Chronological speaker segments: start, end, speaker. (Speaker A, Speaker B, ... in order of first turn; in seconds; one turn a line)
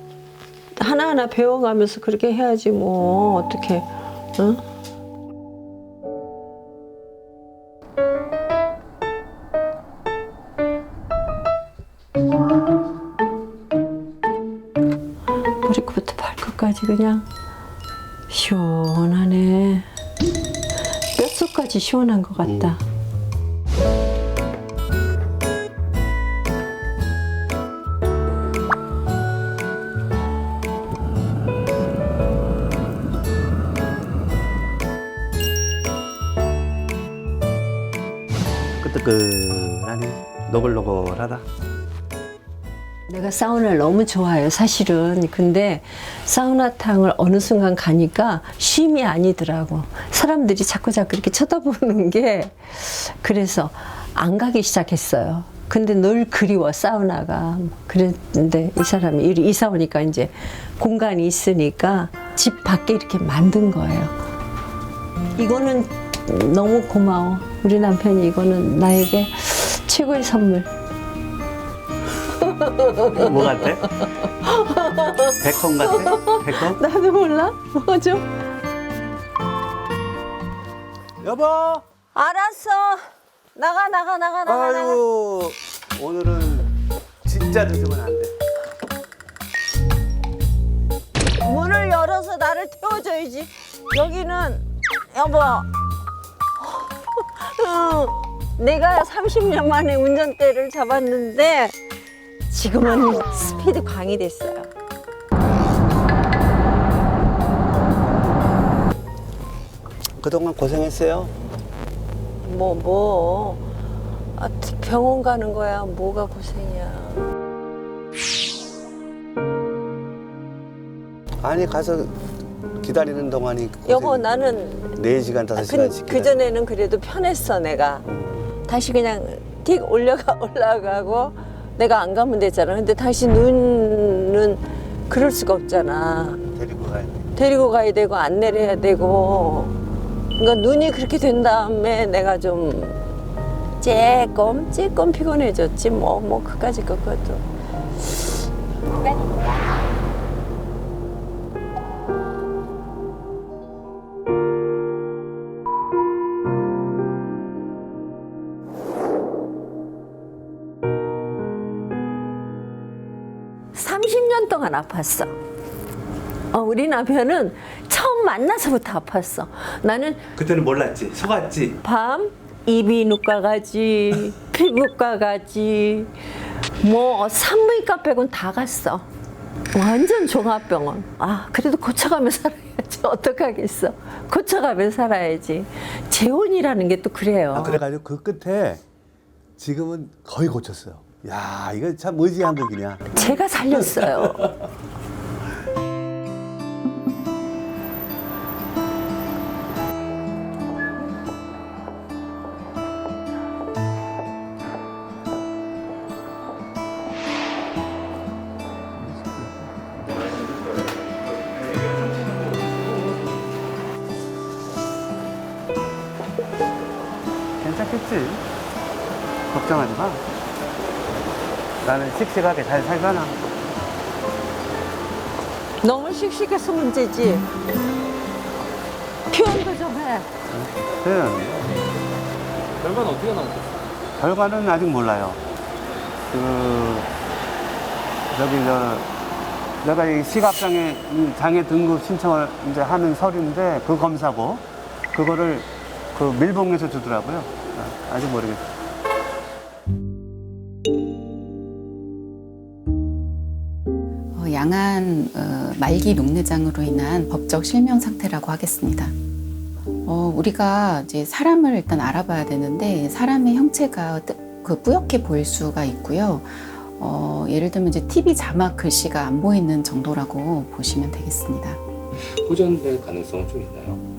Speaker A: 0.8-4.6
Speaker A: 15.6-17.2
Speaker A: 18.3-19.9
Speaker A: 21.1-22.8
Speaker B: 22.4-22.8
Speaker B: 38.8-41.4
Speaker A: 43.1-64.1
Speaker A: 65.3-70.7
Speaker A: 72.3-78.3
Speaker B: 73.1-73.9
Speaker B: 75.4-76.8
Speaker B: 81.2-81.8
Speaker A: 82.1-85.0
Speaker B: 84.4-86.7
Speaker B: 87.2-88.3
Speaker A: 91.4-95.7
Speaker A: 96.6-101.7
Speaker A: 102.5-104.7
Speaker B: 110.2-111.3
Speaker A: 112.4-113.6
Speaker A: 114.3-117.2
Speaker B: 121.4-122.2
Speaker B: 122.8-124.3
Speaker A: 123.9-125.0
Speaker B: 124.9-126.3
Speaker A: 125.5-128.0
Speaker B: 128.0-128.5
Speaker A: 128.6-136.4
Speaker B: 136.5-137.3
Speaker A: 137.3-139.8
Speaker A: 140.3-143.0
Speaker A: 143.8-147.4
Speaker A: 163.7-165.3
Speaker A: 166.5-170.2
Speaker B: 170.3-171.8
Speaker A: 171.8-176.1
Speaker A: 176.8-179.1
Speaker A: 179.7-187.8
Speaker B: 187.5-188.8
Speaker B: 189.6-193.2
Speaker A: 193.1-194.5
Speaker B: 193.8-194.4
Speaker B: 217.6-218.4
Speaker B: 219.5-220.2
Speaker B: 221.8-223.4
Speaker A: 225.8-227.5
Speaker A: 229.3-230.3
Speaker B: 230.5-231.7
Speaker C: 232.8-233.7
Speaker B: 234.2-235.4
Speaker B: 236.3-237.1
Speaker B: 238.3-239.1
Speaker B: 239.8-248.6
Speaker D: 254.3-259.1
Speaker D: 260.1-271.8
Speaker C: 272.1-274.0